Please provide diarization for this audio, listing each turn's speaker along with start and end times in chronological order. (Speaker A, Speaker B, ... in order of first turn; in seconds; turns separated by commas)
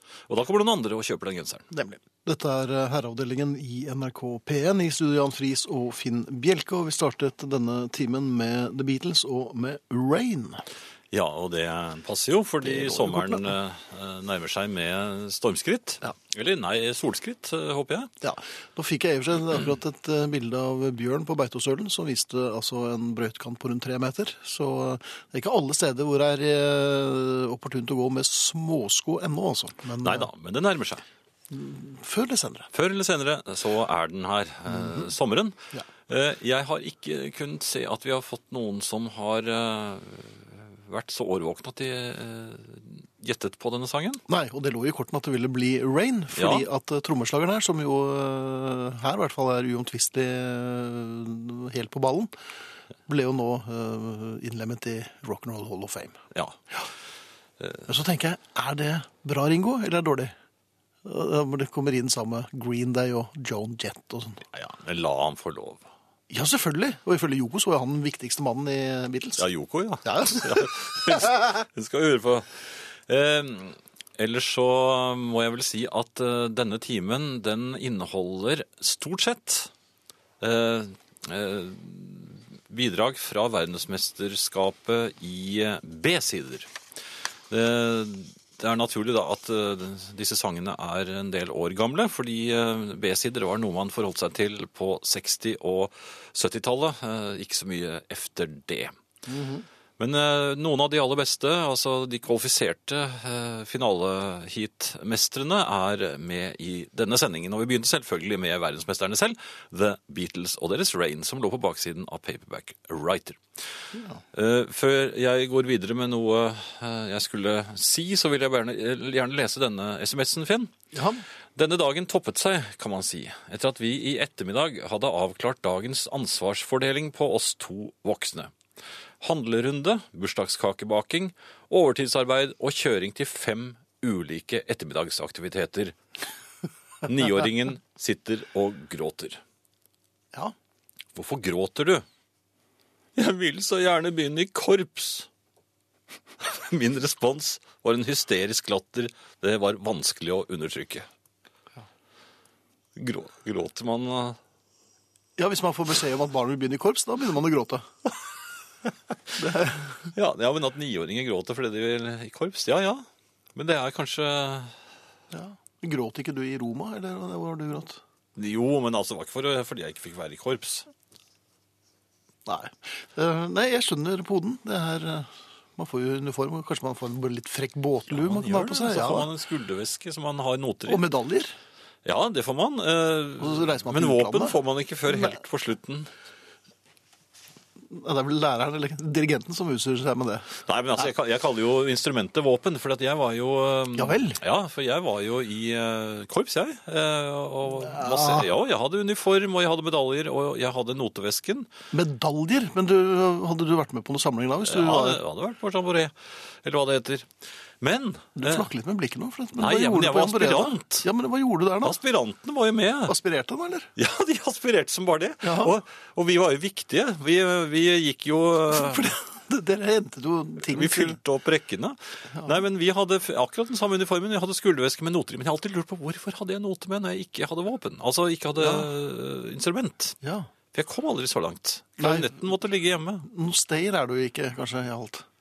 Speaker A: 0.3-1.7, Speaker B: 1.7-10.6, Speaker A: 11.1-18.1, Speaker B: 12.6-13.5, Speaker B: 18.2-30.3, Speaker A: 30.0-31.0, Speaker B: 31.5-32.7, Speaker A: 32.7-35.6, Speaker A: 36.1-44.2, Speaker B: 44.3-52.3, Speaker A: 46.4-46.7, Speaker B: 53.1-56.2, Speaker A: 56.3-56.6, Speaker A: 57.6-57.9, Speaker B: 57.9-60.3, Speaker B: 61.0-64.4, Speaker A: 64.5-65.9, Speaker B: 66.3-69.5, Speaker A: 69.4-79.7, Speaker B: 70.0-71.5, Speaker A: 80.4-86.7, Speaker A: 87.5-99.0, Speaker B: 99.3-99.7, Speaker A: 100.0-113.4, Speaker B: 113.9-114.2, Speaker A: 114.3-120.7, Speaker B: 120.9-121.2, Speaker A: 121.6-128.5, Speaker A: 129.2-136.0, Speaker A: 137.1-139.4, Speaker A: 141.2-142.1, Speaker A: 143.2-145.3, Speaker A: 146.4-151.1, Speaker A: 153.0-154.4, Speaker B: 155.4-157.9, Speaker B: 159.4-160.1, Speaker A: 160.1-164.8, Speaker B: 165.3-168.0, Speaker A: 168.4-170.9, Speaker B: 172.5-179.3, Speaker A: 178.1-181.1, Speaker B: 180.9-181.6, Speaker A: 182.0-186.1, Speaker B: 183.4-184.6, Speaker B: 187.9-190.6, Speaker A: 190.7-201.7, Speaker B: 193.9-194.4, Speaker B: 197.7-198.5, Speaker B: 201.9-205.2, Speaker A: 204.6-207.3, Speaker A: 207.8-208.7, Speaker B: 208.4-212.0, Speaker A: 209.6-211.1, Speaker A: 211.8-213.2, Speaker B: 213.1-213.9, Speaker A: 214.0-219.1, Speaker B: 215.4-215.7, Speaker B: 218.7-221.2, Speaker A: 220.6-230.2, Speaker B: 228.6-228.9, Speaker B: 230.2-230.5, Speaker A: 230.7-233.3, Speaker B: 232.0-232.3, Speaker B: 233.2-235.2